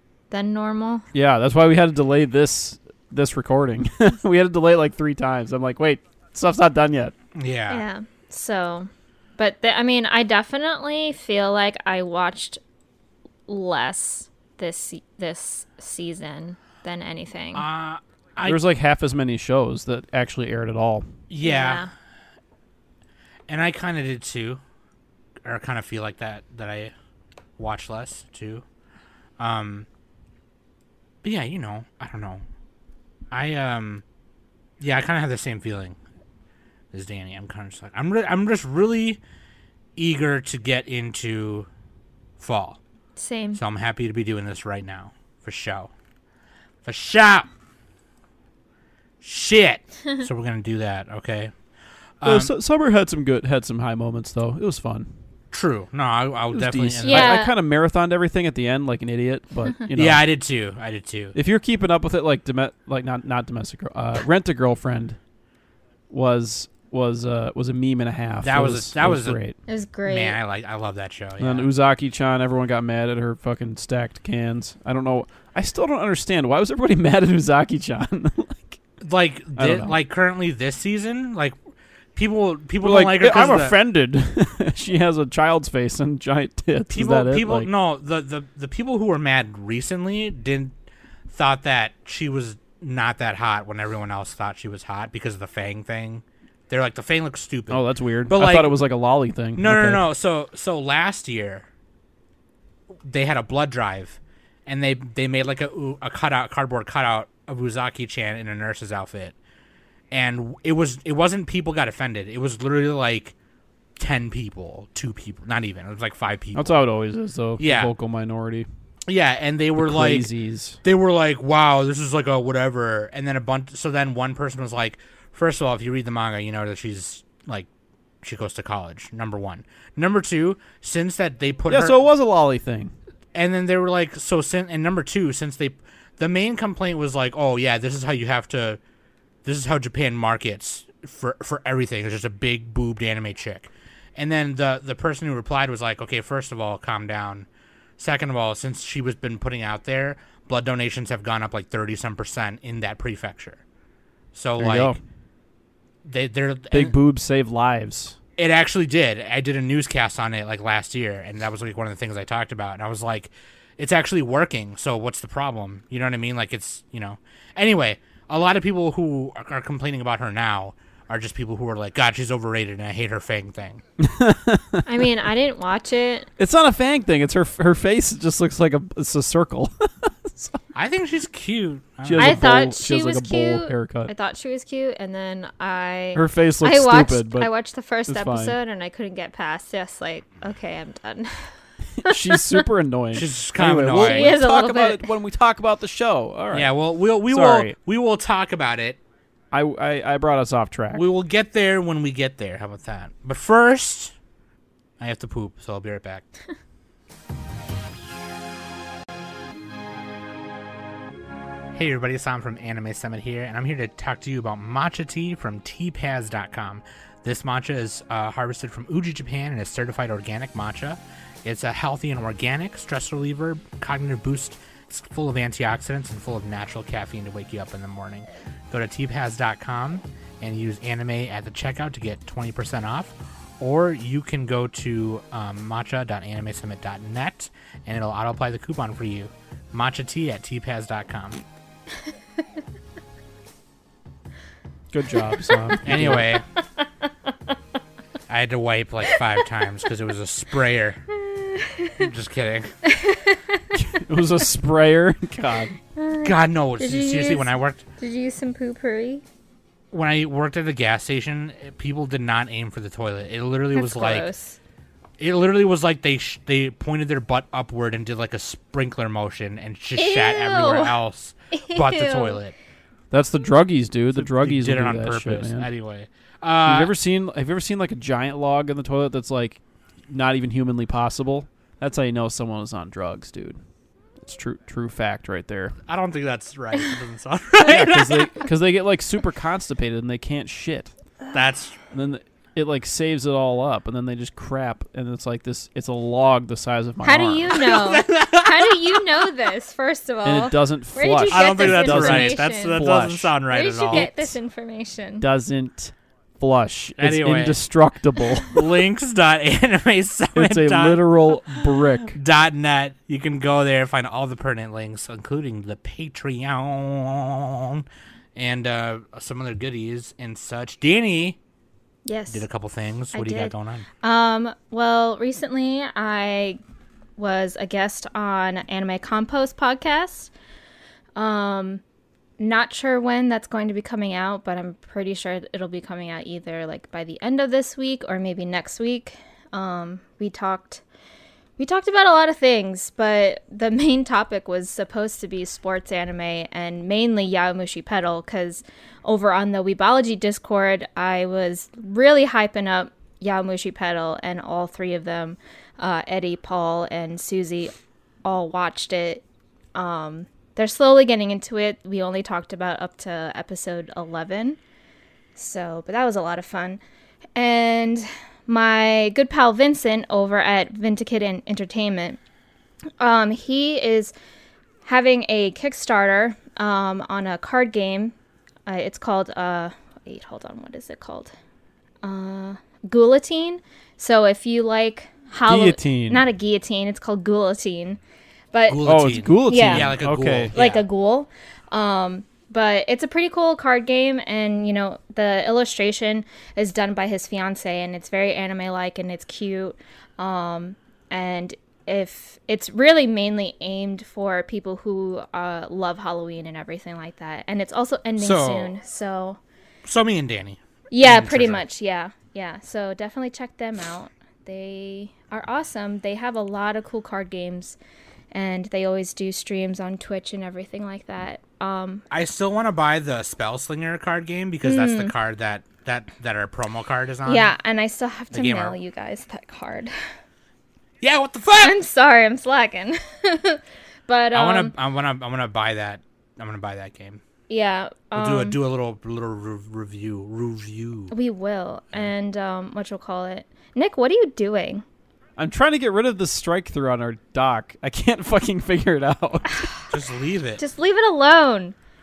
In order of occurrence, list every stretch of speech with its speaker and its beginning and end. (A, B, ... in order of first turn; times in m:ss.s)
0:00.3-0:01.0 A
0:01.1-0:07.1 B
0:07.3-0:07.8 C
0:07.7-0:12.6 A
0:13.5-0:17.6 A
0:17.5-0:18.6 C
0:18.4-0:21.1 B
0:21.3-0:21.8 C
0:21.4-0:21.9 A
0:23.5-0:24.6 C
0:25.4-0:26.9 C
0:27.6-0:28.6 C
0:29.4-0:29.9 C
0:31.2-0:32.4 C
0:33.3-0:34.0 C
0:34.8-0:36.0 C
0:36.9-0:39.2 C
0:40.0-0:41.7 C
0:42.4-0:42.8 C
0:43.2-0:43.6 A
0:43.5-0:45.9 C
0:46.8-0:47.5 C
0:49.2-0:51.5 C
0:52.2-0:52.5 C
0:52.2-0:55.1 B
0:55.5-0:57.4 C
0:56.5-1:00.2 B
0:57.1-0:57.5 A
0:59.9-1:01.3 C
1:01.3-1:05.2 B
1:06.1-1:09.6 B
1:08.4-1:09.4 C
1:09.7-1:10.4 A
1:10.0-1:11.7 C
1:11.4-1:18.8 B
1:19.0-1:21.5 C
1:19.6-1:20.0 B
1:22.2-1:23.8 C
1:22.8-1:27.7 B
1:26.9-1:30.7 C
1:31.3-1:38.8 C
1:37.7-1:40.0 B
1:39.6-1:41.7 C
1:43.0-1:49.4 C
1:50.1-1:53.3 C
1:54.0-1:56.8 C
1:56.5-1:58.7 B
1:57.6-1:57.9 C
1:59.1-2:00.3 C
1:59.8-2:00.8 B
2:00.8-2:07.7 C
2:08.2-2:12.0 C
2:11.7-2:12.9 B
2:13.3-2:18.8 C
2:19.4-2:27.5 C
2:28.0-2:33.6 C
2:34.3-2:35.0 C
2:34.6-2:35.0 B
2:36.0-2:36.9 C
2:36.7-2:38.2 B
2:38.4-2:53.8 C
2:54.0-2:54.8 B
2:54.8-2:56.3 A
2:56.4-3:00.6 B
3:00.7-3:02.4 C
3:02.0-3:04.1 B
3:02.2-3:12.6 A
3:06.1-3:07.5 B
3:08.1-3:08.6 B
3:12.0-3:17.8 B
3:13.1-3:14.3 C
3:13.9-3:15.1 A
3:16.5-3:19.0 C
3:19.5-3:21.1 B
3:20.9-3:24.1 C
3:25.0-3:26.2 C
3:31.7-4:01.4 C
4:04.9-4:06.2 B
4:05.8-4:06.4 C
4:08.3-4:11.0 C
4:09.1-4:09.4 A
4:11.1-4:12.0 A
4:12.0-4:12.7 C
4:12.8-4:13.7 A
4:13.7-4:15.7 B
4:16.0-4:19.2 A
4:16.2-4:17.8 C
4:19.9-4:24.3 C
4:23.7-4:24.6 A
4:25.2-4:32.5 C
4:30.0-4:31.0 A
4:31.5-4:32.4 A
4:33.1-4:35.7 B
4:34.1-4:36.9 C
4:36.6-4:43.6 B
4:44.2-4:45.8 B
4:45.9-4:48.3 C
4:47.6-4:50.9 B
4:51.3-4:51.8 C
4:51.9-4:57.6 B
4:57.0-5:02.8 A
4:57.5-4:59.2 C
5:00.2-5:03.4 B
5:01.3-5:04.3 C
5:03.5-5:05.3 A
5:03.9-5:04.2 B
5:05.2-5:08.6 B
5:07.0-5:07.6 C
5:08.4-5:21.4 C
5:10.3-5:12.2 B
5:22.0-5:22.4 A
5:22.3-5:23.8 C
5:23.1-5:26.6 A
5:27.2-5:30.3 A
5:31.2-5:31.8 A
5:32.4-5:40.8 A
5:41.6-5:57.7 A
5:58.2-5:59.2 A
5:59.7-6:04.6 A
6:05.4-6:06.8 A
6:07.4-6:12.2 A
6:13.0-6:14.1 A
6:14.8-6:18.1 A
6:18.6-6:21.3 A
6:22.0-6:28.0 A
6:25.5-6:26.2 B
6:28.5-6:30.0 A
6:28.7-6:30.8 C
6:28.8-6:30.5 B
6:30.5-6:49.4 A
6:48.2-6:48.7 C
6:49.8-6:51.6 C
6:50.9-6:57.8 A
6:58.3-7:02.0 A
7:02.1-7:07.5 C
7:04.6-7:05.1 A
7:07.2-7:09.9 A
7:08.3-7:08.8 C
7:11.0-7:11.7 C
7:11.6-7:14.7 A
7:14.3-7:17.2 C
7:17.5-7:18.6 A
7:18.2-7:21.1 C
7:21.1-7:24.8 A
7:25.4-7:29.7 B
7:29.9-7:30.6 C
7:30.6-7:31.7 A